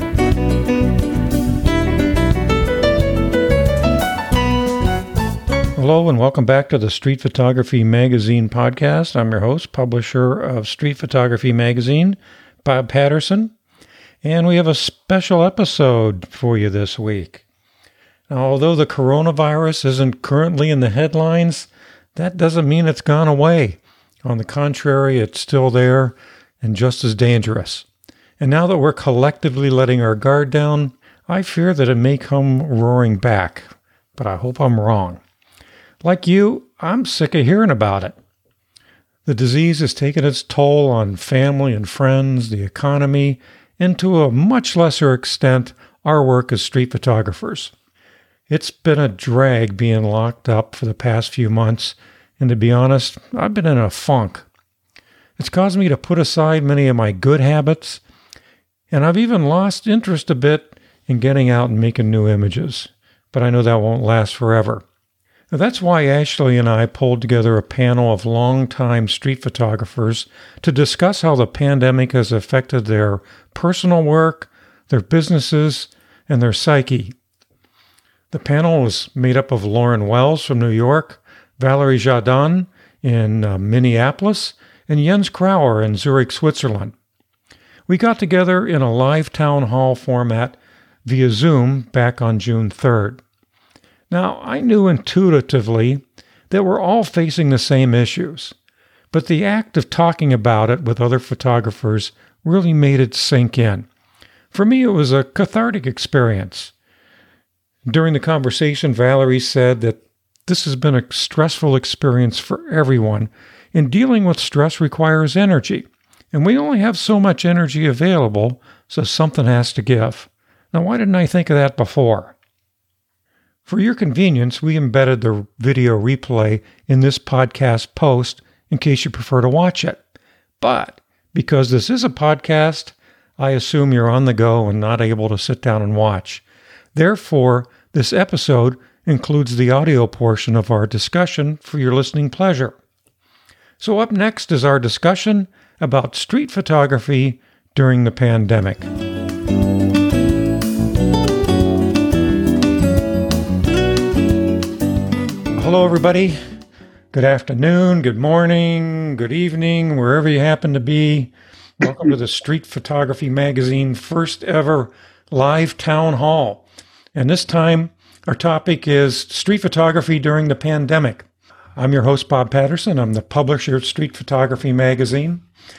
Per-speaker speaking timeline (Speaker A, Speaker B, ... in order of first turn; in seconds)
Speaker A: 5.8-13.5, 14.2-17.4, 18.3-27.9, 28.4-35.2, 36.0-38.1, 39.2-47.7, 48.5-54.5, 55.4-58.0, 58.9-64.8, 65.5-77.1, 78.3-86.9, 87.9-93.2, 94.1-98.5, 99.1-103.9, 104.5-106.7, 107.8-122.3, 123.7-130.0, 130.6-136.4, 136.9-142.8, 143.8-148.9, 155.5-156.4, 157.1-166.6, 167.1-171.2, 171.8-175.4